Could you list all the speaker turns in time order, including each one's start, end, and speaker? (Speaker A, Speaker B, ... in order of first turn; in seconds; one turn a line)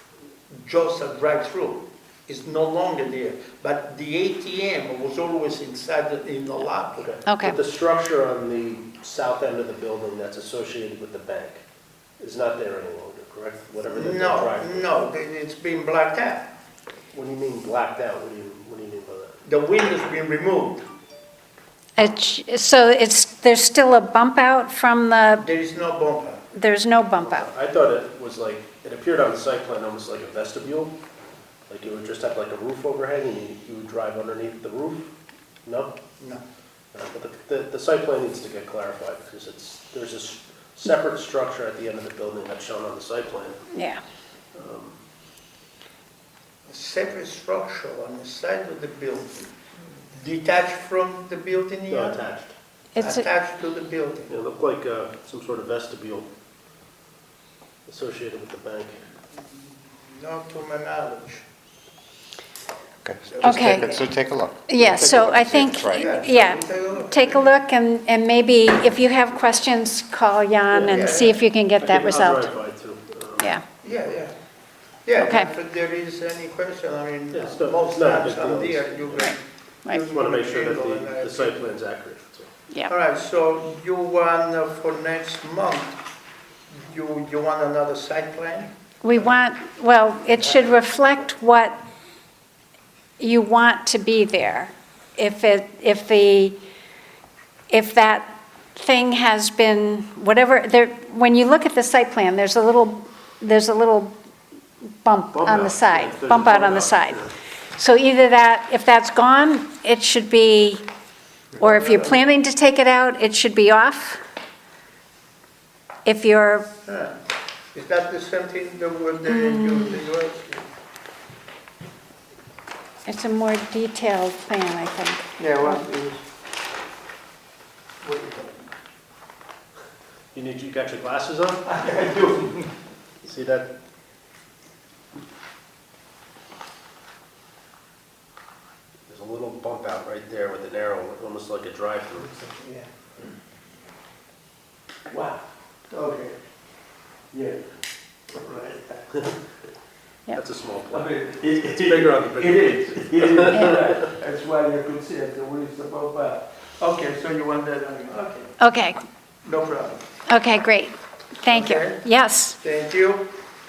Speaker A: 0.5-7.1
Speaker B: 7.0-11.6
Speaker C: 7.2-7.6
Speaker B: 12.2-14.9
Speaker A: 13.9-16.5
Speaker B: 17.1-19.4
Speaker A: 19.4-20.8
Speaker C: 22.0-25.5
Speaker A: 25.4-26.4
Speaker C: 26.5-27.5
Speaker B: 27.2-30.9
Speaker B: 31.7-35.1
Speaker B: 35.6-36.0
Speaker B: 36.9-43.6
Speaker C: 43.7-44.0
Speaker B: 44.5-45.0
Speaker A: 46.7-49.5
Speaker A: 50.1-52.2
Speaker B: 51.9-52.5
Speaker C: 52.9-53.3
Speaker A: 53.0-54.3
Speaker B: 54.3-56.3
Speaker B: 57.9-59.0
Speaker A: 59.4-61.4
Speaker D: 63.0-66.1
Speaker A: 63.3-64.0
Speaker C: 63.4-64.0
Speaker C: 64.7-72.5
Speaker A: 65.7-67.6
Speaker B: 70.7-71.2
Speaker A: 70.8-71.4
Speaker B: 71.8-73.5
Speaker A: 73.8-74.3
Speaker A: 75.0-81.7
Speaker C: 75.2-75.5
Speaker B: 77.3-79.3
Speaker B: 80.0-82.5
Speaker A: 82.9-86.0
Speaker A: 86.7-89.3
Speaker C: 89.0-91.8
Speaker C: 93.2-96.6
Speaker C: 97.7-104.1
Speaker C: 105.0-110.8
Speaker B: 105.3-107.3
Speaker C: 111.6-114.2
Speaker A: 111.8-112.1
Speaker C: 116.0-116.7
Speaker A: 116.8-117.2
Speaker A: 117.7-120.7
Speaker C: 119.2-120.0
Speaker C: 123.0-125.8
Speaker A: 125.4-126.2
Speaker A: 128.0-128.7
Speaker B: 130.3-131.7
Speaker A: 131.7-132.6
Speaker B: 133.2-133.7
Speaker B: 139.1-142.4
Speaker A: 142.5-142.8
Speaker A: 145.1-145.4
Speaker A: 145.9-146.3
Speaker A: 148.3-149.0
Speaker B: 150.3-154.0
Speaker A: 150.9-158.5
Speaker C: 158.6-159.0
Speaker A: 159.4-160.1
Speaker C: 160.3-162.6
Speaker A: 161.5-162.1
Speaker A: 162.6-163.3